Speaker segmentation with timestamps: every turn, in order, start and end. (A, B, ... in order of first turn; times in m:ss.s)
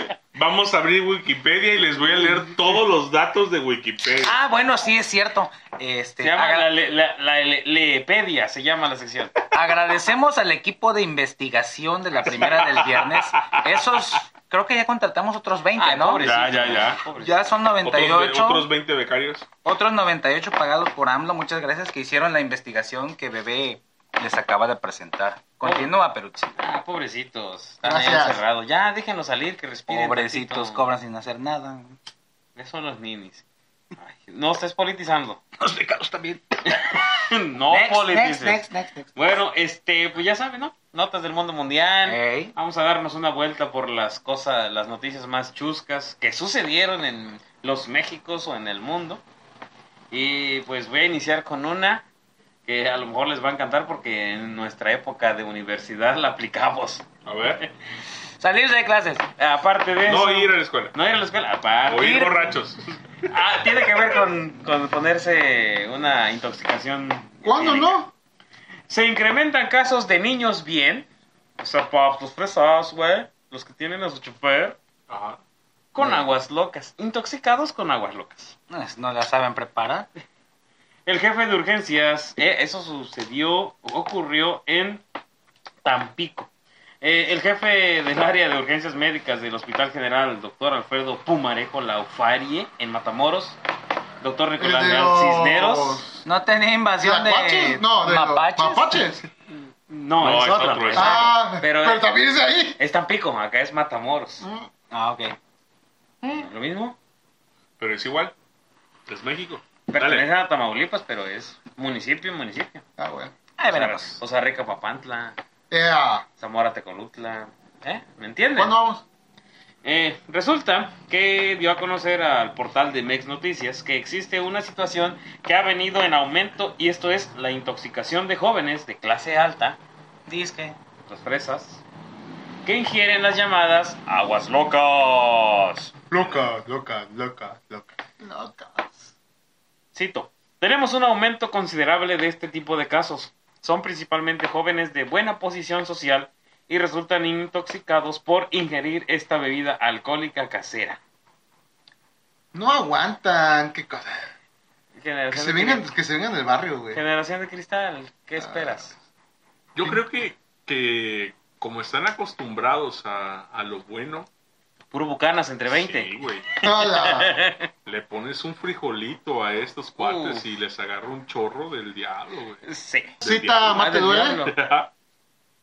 0:00.3-0:04.4 A
0:04.2-0:06.7 B
0:06.2-0:09.4 C
0:09.5-0:16.2 B
0:12.2-0:13.8 A
0:15.8-0:17.4 C
0:16.2-0:17.0 A
0:17.1-0:18.7 B
0:17.8-0:19.5 A
0:19.6-0:26.6 B
0:25.6-0:25.9 C
0:26.6-0:30.8 C
0:27.8-0:28.4 D
0:29.9-0:32.0 B
0:32.6-0:33.4 C
0:34.0-0:35.4 C
0:35.6-0:37.0 B
0:36.7-0:38.6 C
0:37.7-0:39.1 B
0:39.2-0:49.2 C
0:42.0-0:42.5 B
0:50.1-0:52.0 C
0:52.6-0:57.0 C
0:57.2-0:57.6 A
0:58.4-0:59.2 B
0:59.4-1:02.5 C
1:00.0-1:00.9 A
1:01.9-1:02.9 A
1:02.0-1:02.5 B
1:03.3-1:08.0 C
1:07.4-1:08.1 D
1:08.9-1:11.1 C
1:11.6-1:14.8 C
1:15.1-1:15.4 A
1:15.9-1:18.5 C
1:16.0-1:16.3 B
1:18.7-1:20.1 B
1:21.0-1:25.0 C
1:25.8-1:26.5 C
1:27.0-1:33.6 C
1:34.2-1:36.0 C
1:34.6-1:36.2 D
1:36.2-1:39.1 B
1:37.0-1:39.2 D
1:39.9-1:42.1 C
1:40.2-1:41.4 A
1:40.9-1:42.8 D
1:42.8-1:44.4 C
1:44.4-1:44.7 D
1:44.9-1:45.4 B
1:46.2-1:46.5 D
1:46.4-1:47.0 C
1:47.8-1:48.3 A
1:49.1-1:50.3 A
1:49.9-1:52.8 C
1:53.0-1:53.3 D
1:53.6-1:54.2 B
1:53.7-1:55.4 C
1:55.7-1:56.2 D
1:56.4-1:58.7 C
1:58.6-1:59.0 D
1:59.8-2:09.8 C
2:10.3-2:10.8 B
2:11.1-2:11.8 C
2:12.6-2:15.9 C
2:16.1-2:19.1 D
2:19.9-2:31.0 C
2:32.5-2:34.3 D
2:35.0-2:35.9 C
2:35.3-2:37.0 D
2:36.9-2:39.0 C
2:38.4-2:38.8 D
2:39.7-2:44.3 A
2:44.9-2:46.1 C
2:45.7-2:46.5 A
2:46.6-2:47.4 D
2:46.6-2:47.7 C
2:47.8-2:52.6 A
2:50.0-2:50.4 C
2:52.6-2:54.5 C
2:53.2-2:53.8 A
2:53.2-2:54.4 D
2:54.4-2:54.9 A